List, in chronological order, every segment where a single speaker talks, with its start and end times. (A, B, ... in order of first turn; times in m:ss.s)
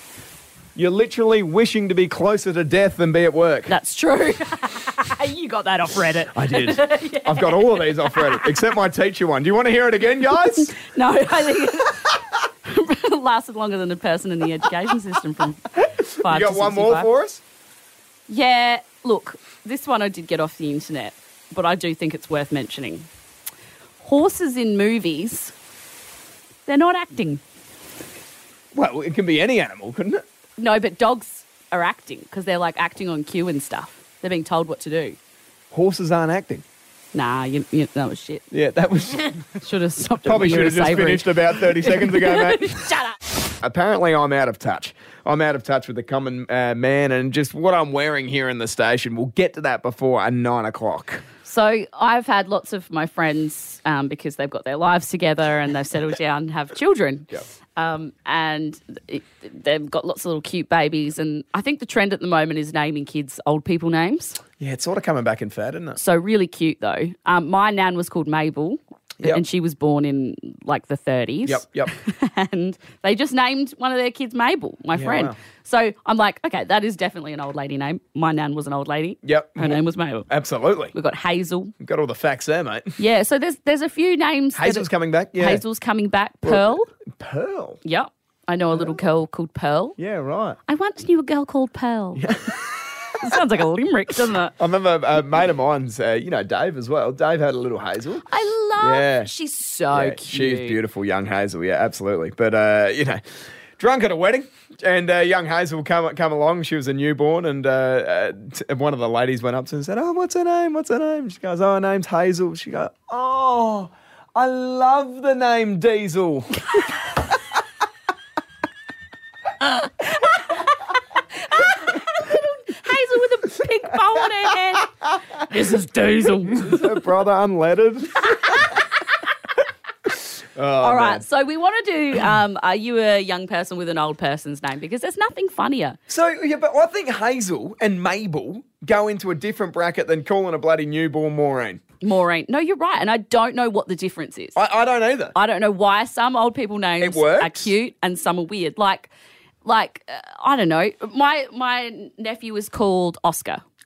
0:00.8-0:03.7 A
0:03.7-0:08.5 B
0:06.3-0:10.7 A
0:10.5-0:17.1 B
0:15.8-0:17.4 A
0:18.3-0:23.1 B
0:24.0-0:25.5 B
0:26.7-0:27.4 B
0:28.7-0:30.2 A
0:30.6-0:35.2 B
0:35.7-0:36.6 A
0:37.1-0:38.4 B
0:38.5-0:39.4 A
0:39.6-0:43.2 B
0:40.2-0:42.8 A
0:43.6-0:51.2 A
0:51.4-1:04.4 B
1:04.6-1:06.0 A
1:06.0-1:20.3 B
1:11.4-1:11.9 A
1:14.9-1:15.4 A
1:19.2-1:21.0 A
1:20.9-1:21.7 B
1:21.8-1:23.0 A
1:23.0-1:26.9 B
1:24.6-1:25.6 A
1:26.4-1:27.8 A
1:27.8-1:30.0 B
1:30.0-1:30.6 A
1:30.7-1:32.2 B
1:32.2-1:33.1 A
1:33.2-1:34.6 B
1:34.6-1:38.2 A
1:38.3-1:40.8 B
1:38.8-1:39.3 A
1:39.9-1:43.2 A
1:43.8-1:56.6 A
2:00.2-2:00.6 B
2:01.3-2:07.0 B
2:06.4-2:08.7 A
2:10.6-2:11.2 A
2:10.8-2:16.0 B
2:16.1-2:21.8 A
2:22.0-2:24.6 B
2:24.6-2:25.4 A
2:25.4-2:29.1 B
2:27.0-2:27.7 A
2:29.6-2:33.6 B